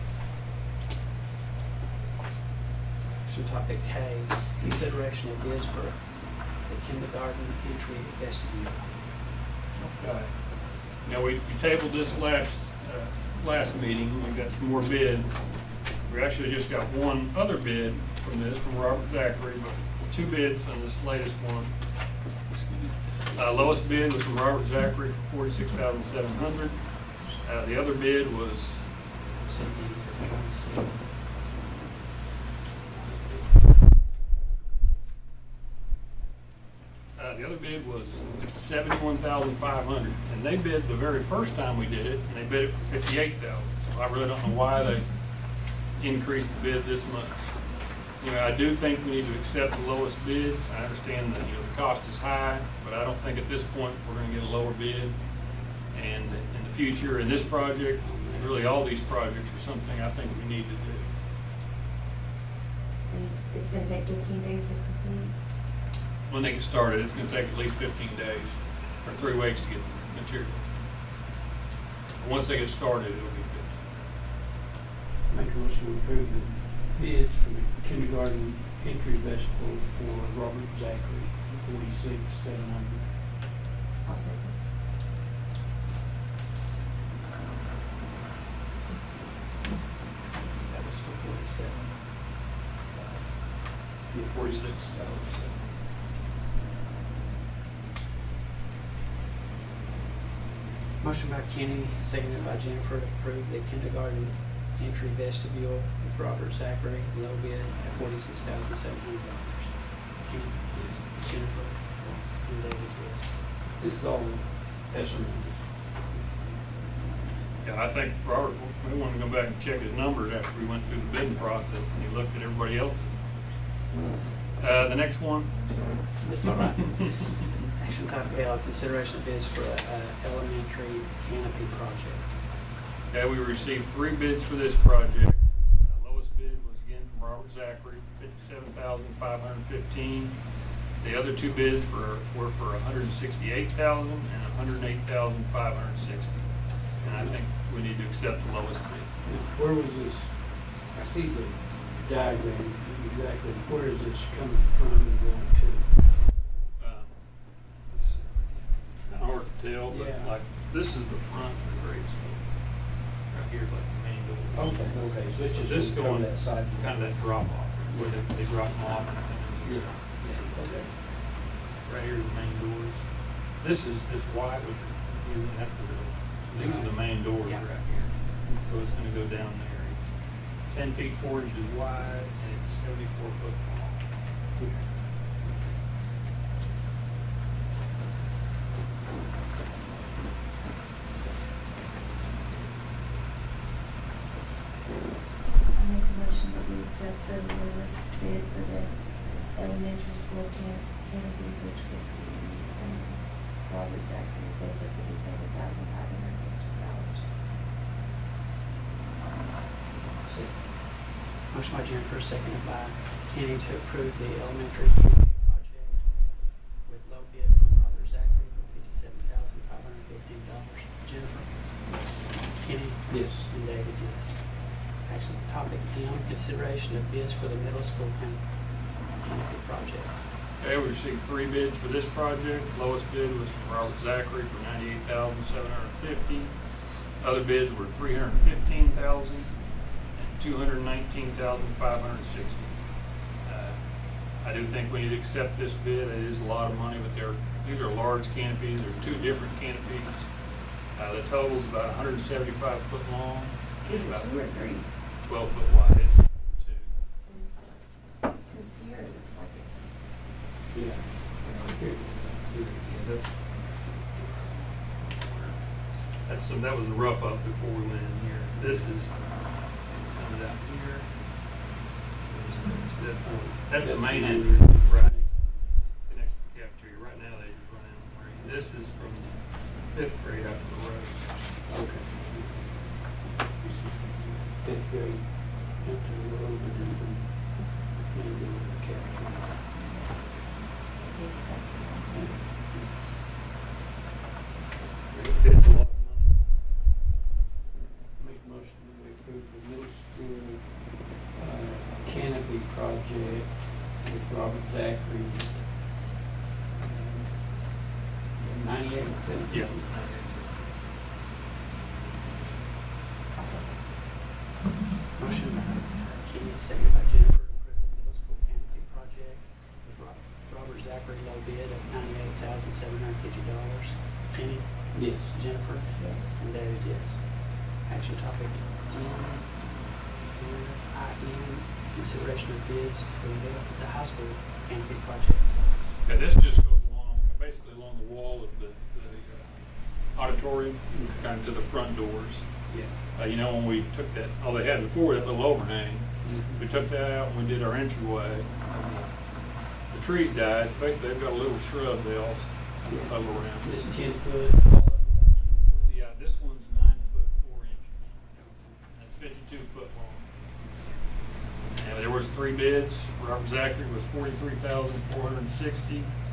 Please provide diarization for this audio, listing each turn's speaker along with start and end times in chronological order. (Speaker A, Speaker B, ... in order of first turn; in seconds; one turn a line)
Speaker A: 3.2-8.9
Speaker B: 9.8-21.8
Speaker B: 22.5-28.9
Speaker A: 29.4-31.1
Speaker B: 37.2-47.6
Speaker B: 48.1-61.1
Speaker C: 58.0-58.4
Speaker D: 63.1-65.4
Speaker B: 66.3-70.8
Speaker B: 72.2-74.0
Speaker C: 75.3-83.2
Speaker D: 84.0-84.6
Speaker A: 90.4-92.1
Speaker B: 94.1-95.6
Speaker C: 94.1-94.4
Speaker A: 101.0-113.4
Speaker C: 110.7-111.0
Speaker D: 112.0-112.4
Speaker C: 113.8-115.9
Speaker B: 117.6-123.3
Speaker B: 124.6-126.2
Speaker A: 126.2-132.4
Speaker B: 133.1-140.4
Speaker B: 141.0-149.2
Speaker C: 147.1-147.3
Speaker C: 149.2-155.9
Speaker B: 156.8-157.2
Speaker B: 157.9-171.1
Speaker C: 159.9-160.3
Speaker C: 164.5-167.4
Speaker C: 169.6-170.9
Speaker B: 171.8-184.1
Speaker A: 176.6-177.7
Speaker C: 184.6-184.9
Speaker D: 195.7-207.3
Speaker C: 210.2-210.6
Speaker A: 211.5-216.1
Speaker A: 216.8-230.2
Speaker D: 221.8-222.3
Speaker C: 223.1-223.5
Speaker B: 230.6-239.6
Speaker B: 240.2-250.4
Speaker B: 250.9-254.3
Speaker D: 253.9-254.9
Speaker B: 255.2-256.9
Speaker D: 257.2-257.8
Speaker D: 258.4-260.2
Speaker C: 260.7-262.8
Speaker B: 262.2-265.6
Speaker B: 266.2-271.2
Speaker B: 272.3-281.4
Speaker C: 273.2-275.6
Speaker C: 281.7-289.7
Speaker D: 289.7-292.4
Speaker C: 292.1-292.9
Speaker B: 295.2-296.4
Speaker C: 298.2-306.1
Speaker C: 306.7-309.9
Speaker B: 309.5-310.6
Speaker D: 313.3-313.8
Speaker A: 315.2-329.6
Speaker C: 324.9-325.4
Speaker D: 326.0-326.4
Speaker A: 330.2-335.7
Speaker B: 336.1-342.5
Speaker C: 340.9-341.3
Speaker C: 342.7-343.0
Speaker B: 343.1-349.2
Speaker C: 346.2-346.6
Speaker B: 349.8-353.8
Speaker C: 352.8-355.9
Speaker B: 355.8-358.1
Speaker B: 358.9-360.3
Speaker B: 361.7-366.1